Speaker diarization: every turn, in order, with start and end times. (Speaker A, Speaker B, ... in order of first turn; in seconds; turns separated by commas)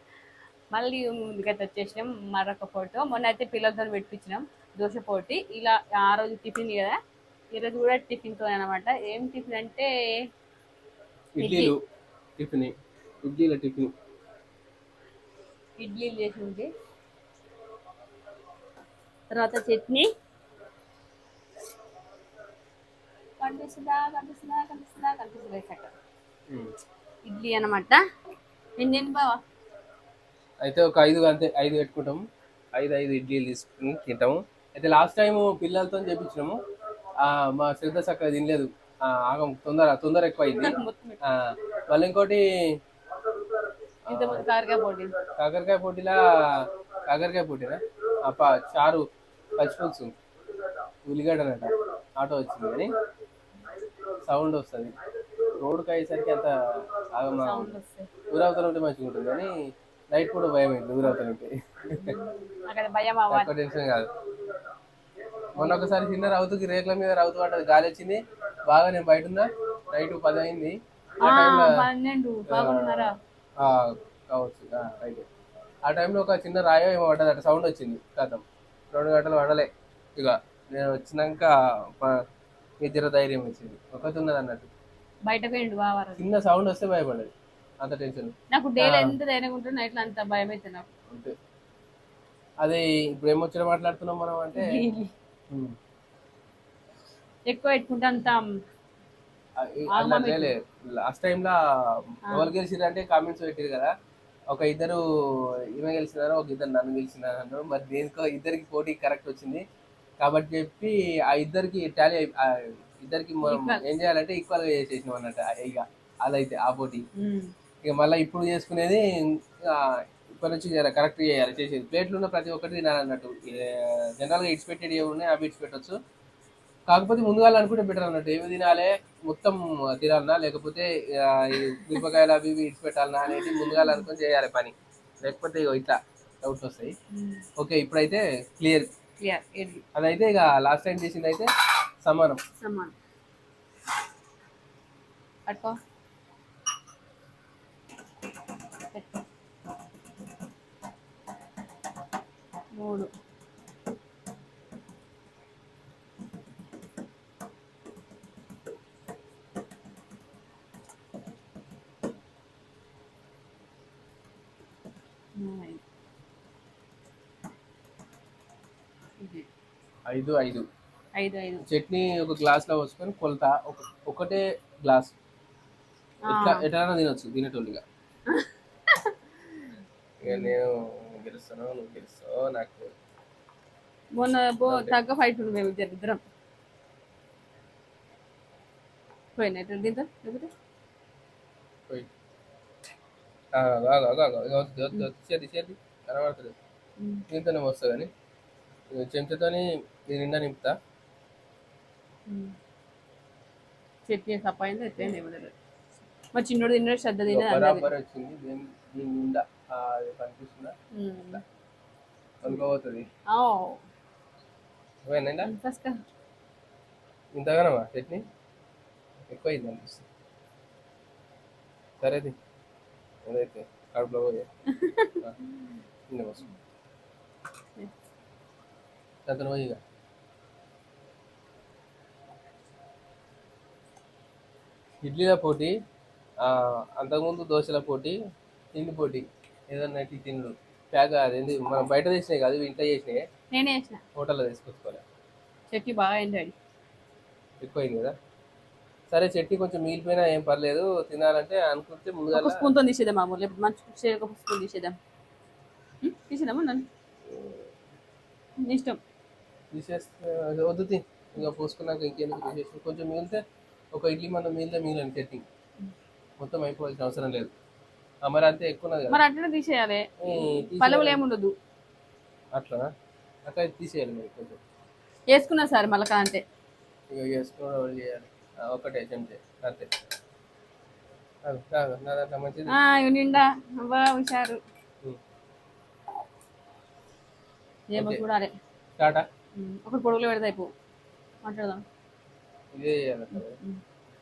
Speaker A: 0.7-7.0, Speaker A: 7.5-9.9, Speaker B: 11.3-11.8, Speaker A: 11.4-11.7, Speaker B: 12.4-13.9, Speaker A: 15.8-16.7, Speaker A: 19.3-20.1, Speaker A: 23.4-25.9, Speaker A: 27.2-28.0, Speaker A: 28.8-29.4, Speaker B: 30.6-32.2, Speaker B: 32.7-36.6, Speaker B: 37.2-42.4, Speaker A: 40.6-41.2, Speaker B: 44.1-44.4, Speaker A: 44.1-45.1, Speaker B: 45.4-49.0, Speaker B: 49.6-50.1, Speaker B: 51.0-52.9, Speaker B: 54.2-54.9, Speaker B: 55.5-57.7, Speaker A: 57.3-58.1, Speaker B: 58.3-59.5, Speaker B: 60.1-62.1, Speaker A: 62.0-63.5, Speaker B: 63.3-64.1, Speaker B: 65.5-71.9, Speaker A: 65.5-66.0, Speaker A: 71.2-73.1, Speaker B: 72.5-75.2, Speaker B: 75.8-82.2, Speaker B: 82.8-84.7, Speaker A: 85.2-86.2, Speaker B: 86.2-89.2, Speaker A: 88.5-90.9, Speaker B: 92.6-94.6, Speaker A: 94.5-95.1, Speaker A: 97.5-98.4, Speaker B: 99.6-103.9, Speaker A: 99.9-100.5, Speaker B: 104.5-109.6, Speaker B: 110.2-117.0, Speaker A: 113.4-113.8, Speaker A: 117.2-117.5, Speaker B: 117.8-126.0, Speaker B: 126.9-136.9, Speaker A: 133.5-134.0, Speaker A: 137.1-137.4, Speaker B: 137.6-138.9, Speaker A: 139.2-139.8, Speaker B: 139.9-141.5, Speaker B: 142.0-142.4, Speaker A: 142.6-142.9, Speaker A: 145.5-145.8, Speaker A: 152.8-153.1, Speaker A: 165.4-165.8, Speaker A: 169.2-169.4, Speaker B: 170.1-170.7, Speaker A: 171.2-171.6, Speaker B: 171.6-175.1, Speaker A: 176.2-176.6, Speaker B: 176.2-177.8, Speaker A: 178.3-179.2, Speaker B: 180.2-182.9, Speaker A: 180.2-180.6, Speaker A: 184.1-186.2, Speaker B: 184.7-184.9, Speaker A: 189.3-190.5, Speaker B: 193.5-196.5, Speaker A: 197.0-197.2, Speaker B: 197.3-198.1, Speaker B: 198.9-200.8, Speaker A: 202.3-202.5, Speaker A: 204.1-205.5, Speaker A: 206.3-207.9, Speaker B: 207.3-210.7, Speaker A: 210.9-211.4, Speaker B: 212.4-213.0, Speaker A: 213.3-213.8, Speaker B: 215.1-215.5, Speaker A: 215.4-216.0, Speaker B: 217.3-218.2, Speaker B: 219.3-220.1, Speaker B: 222.0-222.3, Speaker B: 223.2-224.5, Speaker A: 224.7-225.2, Speaker B: 226.1-226.5, Speaker B: 229.2-229.8, Speaker B: 235.0-235.7, Speaker B: 236.4-238.2, Speaker B: 238.7-243.2, Speaker A: 243.5-244.0, Speaker B: 244.1-245.0, Speaker A: 245.7-246.5, Speaker B: 247.6-248.1, Speaker B: 249.1-252.6, Speaker A: 252.3-254.9, Speaker A: 256.0-256.9, Speaker B: 257.2-257.7, Speaker A: 258.6-259.0, Speaker B: 259.7-263.4, Speaker B: 263.9-265.4, Speaker B: 266.4-267.5, Speaker B: 268.2-269.2, Speaker A: 269.1-271.5, Speaker B: 270.2-271.2, Speaker B: 272.5-272.9, Speaker B: 273.4-274.6, Speaker A: 275.3-276.4, Speaker B: 277.1-279.9, Speaker B: 281.4-282.8, Speaker A: 282.7-284.6, Speaker A: 287.9-288.5, Speaker B: 287.9-288.2, Speaker B: 289.0-289.2, Speaker A: 289.6-290.7, Speaker A: 291.4-291.8, Speaker B: 292.7-293.6, Speaker A: 293.3-293.8